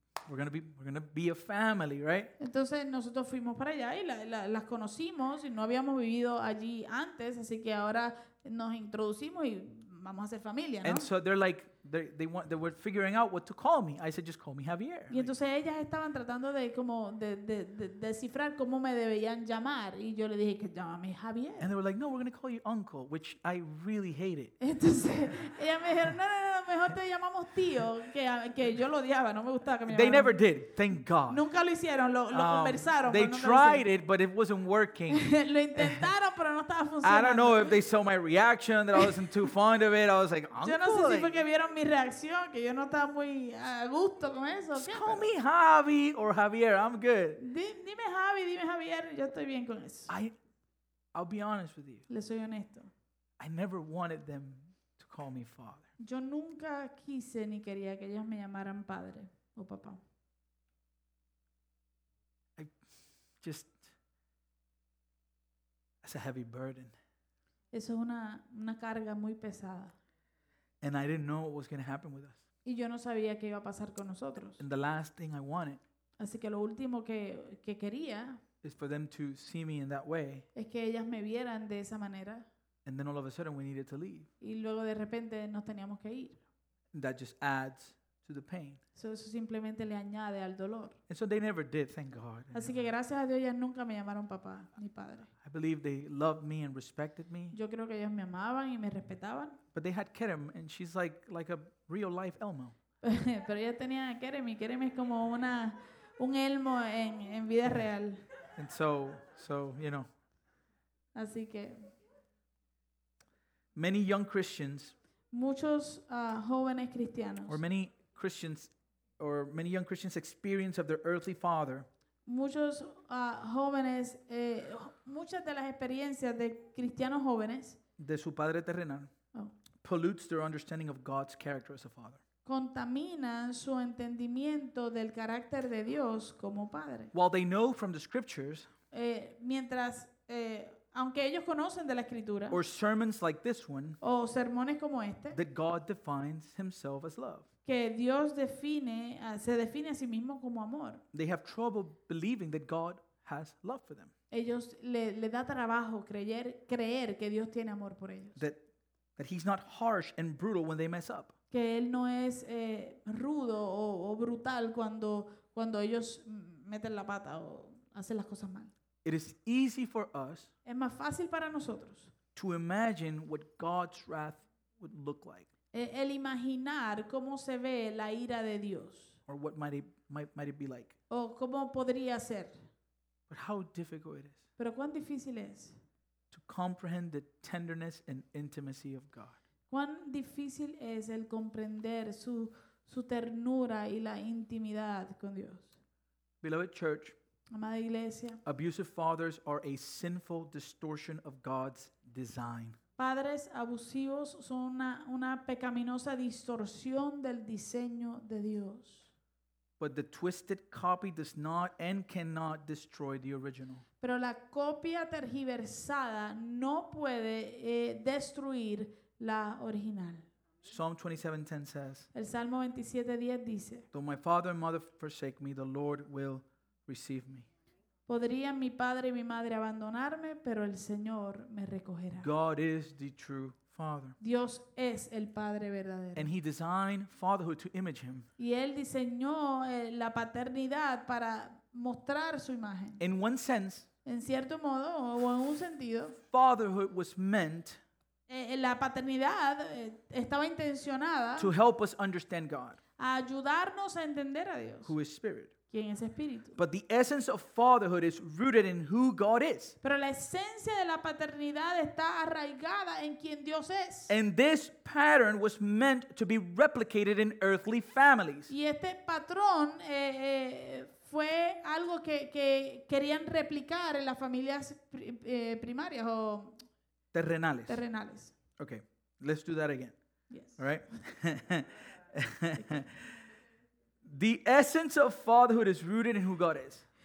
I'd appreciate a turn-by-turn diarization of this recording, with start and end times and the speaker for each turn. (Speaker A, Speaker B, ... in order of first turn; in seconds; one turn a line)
Speaker A: 0.2-2.3
Speaker B: 2.4-11.1
Speaker A: 10.8-15.3
Speaker B: 15.1-21.7
Speaker A: 21.6-24.5
Speaker B: 24.6-30.4
Speaker A: 29.9-31.4
Speaker B: 31.3-33.9
Speaker A: 32.3-36.1
Speaker B: 35.1-37.8
Speaker A: 37.0-41.4
Speaker B: 38.9-39.5
Speaker B: 40.6-45.3
Speaker A: 44.7-47.4
Speaker B: 47.4-50.1
Speaker A: 50.1-50.3
Speaker A: 51.1-52.0
Speaker B: 52.1-52.9
Speaker A: 53.4-55.9
Speaker B: 56.0-60.0
Speaker A: 63.4-63.9
Speaker A: 66.0-66.9
Speaker B: 67.7-69.9
Speaker A: 70.8-72.4
Speaker B: 72.6-74.6
Speaker A: 74.6-75.8
Speaker B: 76.2-78.4
Speaker A: 78.6-80.5
Speaker B: 80.5-82.5
Speaker A: 82.8-84.3
Speaker B: 84.4-86.4
Speaker A: 86.9-88.8
Speaker B: 89.0-91.0
Speaker A: 91.1-92.8
Speaker B: 92.5-95.3
Speaker A: 95.4-97.5
Speaker B: 97.5-99.6
Speaker A: 99.7-102.7
Speaker B: 103.0-108.2
Speaker A: 108.5-110.1
Speaker B: 111.1-111.9
Speaker A: 113.7-114.9
Speaker B: 115.3-117.6
Speaker A: 117.5-121.9
Speaker B: 122.2-127.8
Speaker A: 128.0-129.1
Speaker A: 129.8-132.2
Speaker B: 132.4-137.1
Speaker A: 137.1-138.7
Speaker B: 138.9-142.6
Speaker A: 142.5-144.0
Speaker B: 144.0-145.4
Speaker A: 145.3-147.4
Speaker B: 147.6-151.0
Speaker A: 151.1-154.1
Speaker B: 154.3-158.4
Speaker A: 158.3-158.6
Speaker A: 159.2-161.3
Speaker B: 161.5-168.7
Speaker A: 169.0-170.5
Speaker B: 170.6-172.1
Speaker A: 172.3-175.5
Speaker B: 175.7-179.1
Speaker A: 179.3-180.9
Speaker B: 181.1-182.6
Speaker A: 183.3-184.4
Speaker B: 184.6-185.8
Speaker A: 186.3-189.4
Speaker B: 189.7-195.7
Speaker A: 196.4-197.1
Speaker B: 197.5-198.4
Speaker A: 198.4-202.8
Speaker B: 203.0-209.1
Speaker A: 209.8-213.8
Speaker B: 214.0-220.3
Speaker A: 220.6-222.1
Speaker B: 222.1-223.9
Speaker A: 223.9-227.5
Speaker B: 228.1-232.3
Speaker A: 232.2-234.2
Speaker B: 234.2-236.3
Speaker A: 236.1-238.3
Speaker B: 238.4-243.0
Speaker A: 243.0-243.9
Speaker B: 244.0-246.2
Speaker A: 246.2-247.8
Speaker B: 248.3-251.5
Speaker A: 251.4-252.8
Speaker B: 253.0-254.9
Speaker A: 254.8-255.5
Speaker B: 255.7-256.6
Speaker A: 256.6-259.8
Speaker B: 259.8-264.1
Speaker A: 264.1-268.5
Speaker B: 268.5-276.6
Speaker A: 277.1-277.8
Speaker B: 277.7-278.3
Speaker A: 278.6-279.9
Speaker B: 280.3-280.6
Speaker A: 280.6-282.9
Speaker A: 284.0-286.9